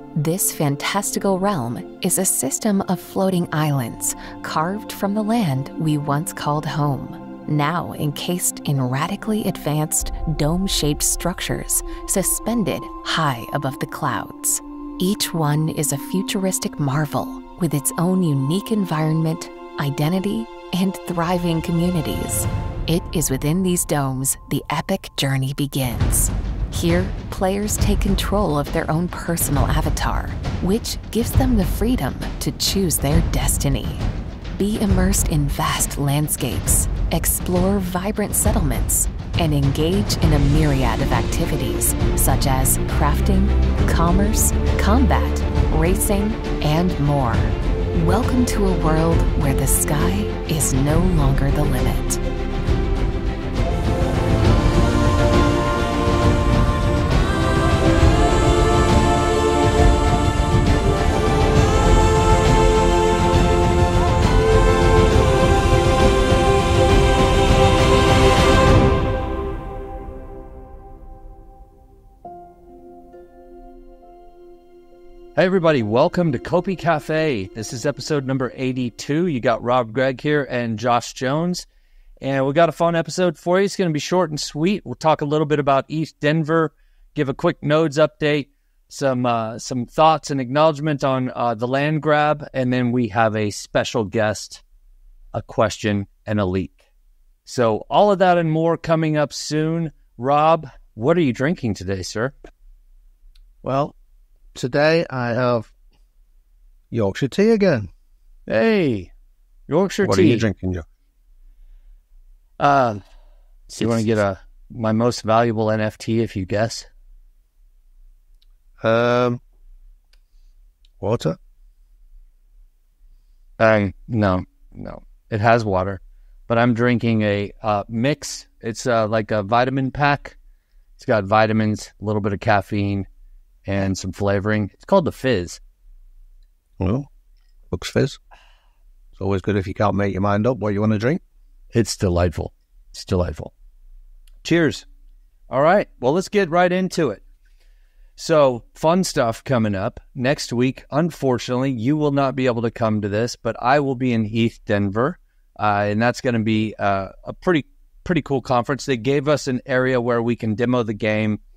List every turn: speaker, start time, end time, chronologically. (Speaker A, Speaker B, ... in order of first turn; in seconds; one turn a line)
Speaker A: 0.1-52.2
Speaker B: 75.3-81.7
Speaker B: 82.2-94.6
Speaker B: 95.3-96.8
Speaker B: 97.4-102.3
Speaker C: 103.6-103.9
Speaker C: 104.5-105.7
Speaker C: 106.9-107.9
Speaker B: 108.5-109.1
Speaker B: 109.7-110.5
Speaker C: 110.0-110.8
Speaker B: 112.6-113.0
Speaker B: 113.7-116.9
Speaker C: 113.8-114.1
Speaker C: 118.8-119.4
Speaker C: 121.0-121.4
Speaker B: 123.6-130.4
Speaker B: 131.0-133.1
Speaker B: 133.7-135.6
Speaker C: 136.8-137.1
Speaker C: 137.7-138.2
Speaker C: 139.2-141.2
Speaker B: 141.7-143.5
Speaker B: 144.4-144.8
Speaker B: 145.5-147.2
Speaker B: 148.2-161.4